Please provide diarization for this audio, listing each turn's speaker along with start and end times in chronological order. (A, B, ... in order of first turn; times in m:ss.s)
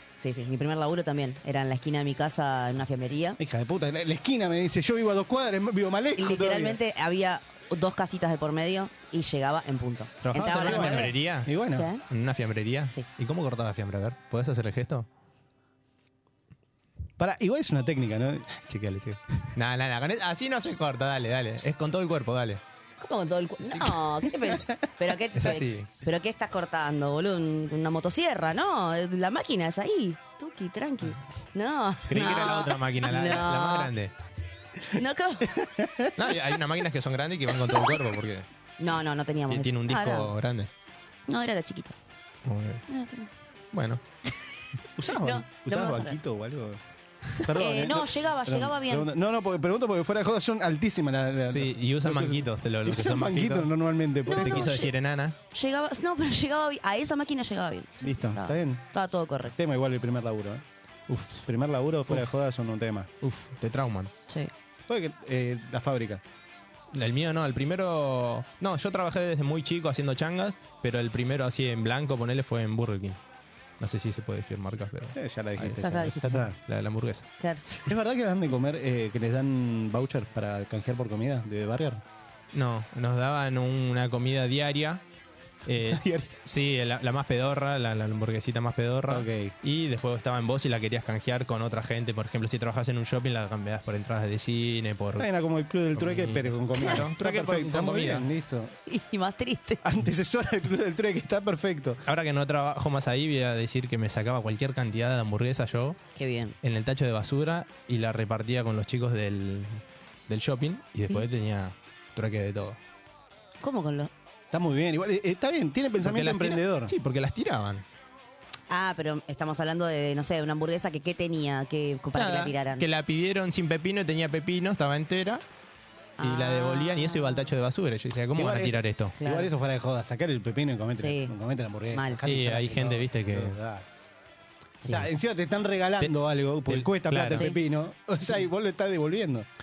0:00.2-0:03.4 A
0:03.4-0:06.8 B
0:06.2-0:11.1 A
0:10.2-0:11.5 C
0:10.6-0:11.9 B
0:11.7-0:12.0 A
0:12.1-0:15.1 C
0:17.2-0:18.5 B
0:18.6-0:22.6 C
0:23.0-0:33.9 A
0:25.3-0:25.9 C
0:32.1-0:34.1 C
0:35.0-0:35.6 A
0:35.5-0:36.1 B
0:36.2-0:38.4 C
0:38.8-0:40.3 A
0:39.5-0:40.7 C
0:41.3-0:42.0 A
0:42.4-0:42.8 C
0:42.9-0:43.3 A
0:43.7-0:44.0 C
0:45.0-0:46.8 B
0:45.2-0:46.2 A
0:47.4-0:54.7 B
0:47.6-0:49.1 A
0:51.5-0:53.7 C
0:54.3-0:55.3 C
0:54.3-0:54.9 A
0:55.5-0:59.5 A
0:58.0-0:58.8 B
0:59.6-1:00.6 B
1:01.1-1:01.4 C
1:01.4-1:03.1 B
1:03.2-1:04.1 C
1:04.9-1:06.2 B
1:06.9-1:13.2 C
1:13.8-1:17.3 C
1:15.1-1:16.6 B
1:15.8-1:16.2 A
1:17.4-1:17.8 A
1:17.9-1:22.0 B
1:22.5-1:25.0 C
1:25.6-1:35.3 C
1:25.8-1:26.3 B
1:29.1-1:29.5 B
1:35.2-1:38.7 B
1:35.9-1:38.3 C
1:38.9-1:39.8 A
1:39.8-1:42.0 B
1:42.0-1:46.0 C
1:46.1-1:46.5 A
1:46.6-1:52.8 C
1:53.6-1:54.1 A
1:54.5-1:56.9 B
1:56.0-1:57.8 C
1:58.7-2:02.8 A
2:02.1-2:05.4 C
2:06.2-2:07.4 A
2:06.2-2:09.1 C
2:08.3-2:13.8 B
2:09.2-2:09.5 A
2:11.0-2:11.3 A
2:11.9-2:12.2 A
2:12.2-2:13.6 C
2:14.8-2:19.5 B
2:16.7-2:17.5 C